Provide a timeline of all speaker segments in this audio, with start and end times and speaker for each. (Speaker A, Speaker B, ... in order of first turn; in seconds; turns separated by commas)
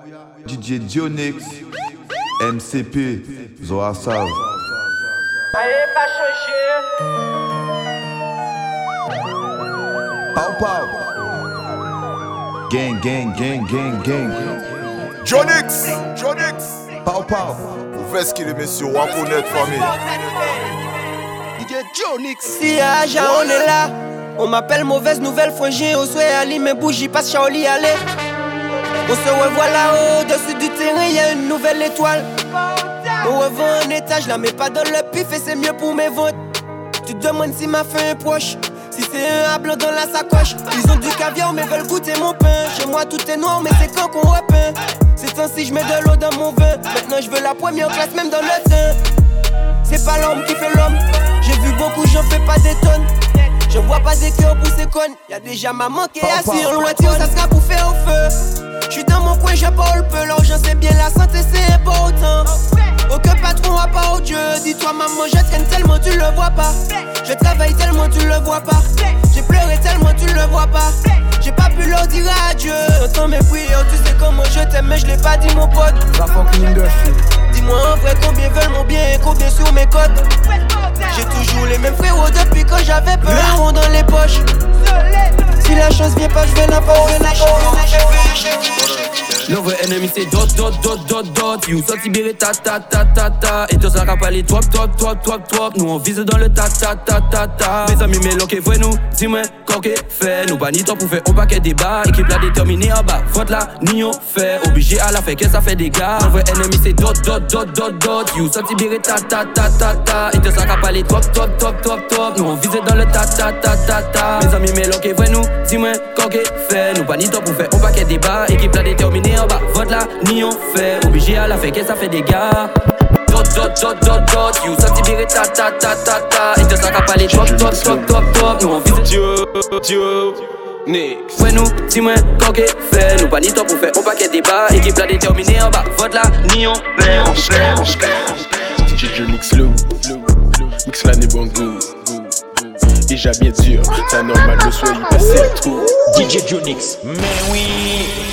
Speaker A: 0.4-1.7, Speaker A: 2.4-4.5, Speaker A: 10.3-11.0, Speaker A: 12.7-14.6, Speaker B: 15.2-16.7, Speaker A: 17.0-17.8, Speaker B: 17.9-20.0, Speaker C: 21.6-28.0, Speaker C: 29.1-32.3, Speaker C: 33.2-36.4, Speaker C: 37.0-49.0, Speaker C: 49.8-58.3, Speaker A: 56.2-57.0, Speaker C: 58.9-76.8, Speaker C: 77.5-80.2, Speaker C: 81.1-84.9, Speaker C: 85.6-88.4, Speaker D: 89.4-122.7, Speaker D: 123.3-130.2, Speaker E: 130.9-131.2, Speaker D: 131.3-137.7, Speaker E: 137.1-146.3, Speaker F: 146.1-148.1